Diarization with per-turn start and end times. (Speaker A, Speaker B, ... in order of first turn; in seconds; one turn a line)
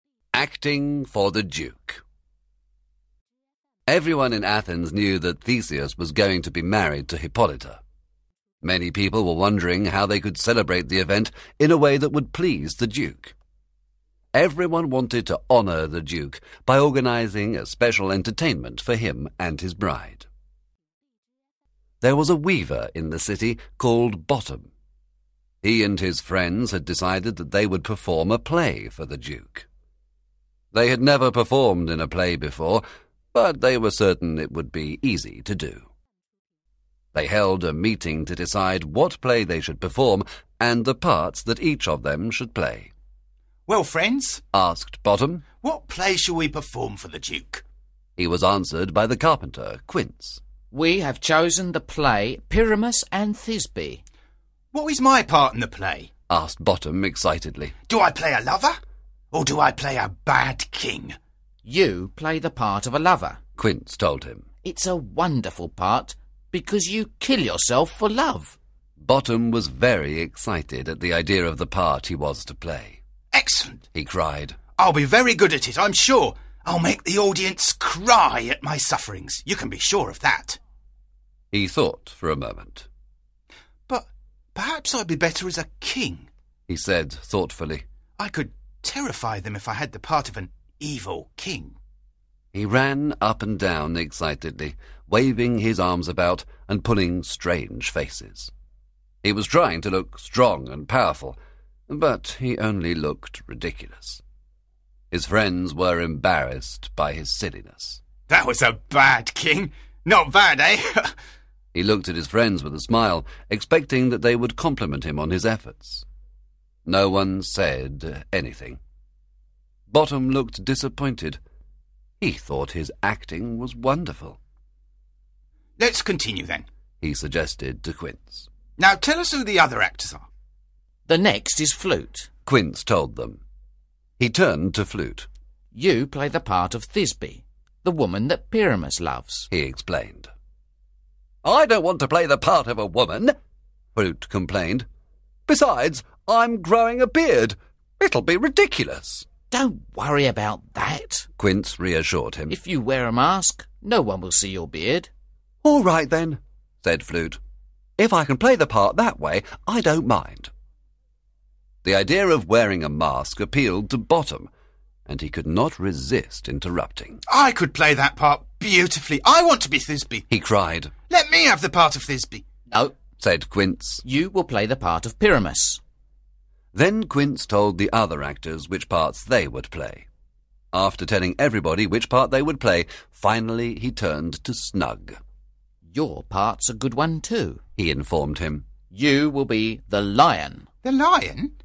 Speaker A: 0.3-2.0
Speaker A: 3.9-7.8
Speaker A: 8.6-13.3
Speaker A: 14.3-20.3
Speaker A: 22.0-24.7
Speaker A: 25.6-29.7
Speaker A: 30.7-35.9
Speaker A: 37.1-42.9
Speaker B: 43.7-44.4
Speaker A: 44.5-45.5
Speaker B: 45.6-47.6
Speaker A: 48.2-50.4
Speaker C: 50.7-54.0
Speaker B: 54.7-56.1
Speaker A: 56.3-57.8
Speaker B: 57.9-58.8
Speaker B: 59.3-61.2
Speaker C: 61.6-63.4
Speaker A: 63.6-64.5
Speaker C: 64.6-68.6
Speaker A: 69.0-73.0
Speaker B: 73.3-73.8
Speaker A: 73.9-74.6
Speaker B: 74.8-80.6
Speaker A: 81.5-82.9
Speaker B: 83.9-86.3
Speaker A: 86.7-87.8
Speaker B: 88.2-91.8
Speaker A: 92.5-98.5
Speaker A: 99.2-104.2
Speaker A: 105.1-108.0
Speaker B: 108.3-111.1
Speaker A: 111.7-116.0
Speaker A: 116.9-118.8
Speaker A: 119.9-121.4
Speaker A: 122.2-124.4
Speaker B: 125.8-126.7
Speaker A: 127.0-128.5
Speaker B: 128.8-130.3
Speaker C: 131.1-132.3
Speaker A: 132.5-133.4
Speaker A: 134.2-135.3
Speaker C: 135.7-139.5
Speaker A: 139.5-140.3
Speaker A: 141.4-143.3
Speaker A: 143.9-144.9
Speaker A: 145.5-149.3
Speaker C: 149.5-151.3
Speaker A: 151.4-152.6
Speaker C: 152.5-155.1
Speaker A: 155.6-157.4
Speaker A: 158.0-160.5
Speaker A: 161.8-164.5
Speaker A: 165.1-167.2
Speaker B: 167.3-170.2
Speaker A: 170.3-170.9
Speaker B: 171.1-172.4
Speaker A: 173.2-174.0
Speaker C: 174.0-175.8
Speaker A: 176.7-180.1
Speaker A: 180.7-185.2
Speaker C: 185.9-187.6
Speaker A: 187.8-188.7
Speaker C: 188.9-190.7
Speaker B: 190.8-191.5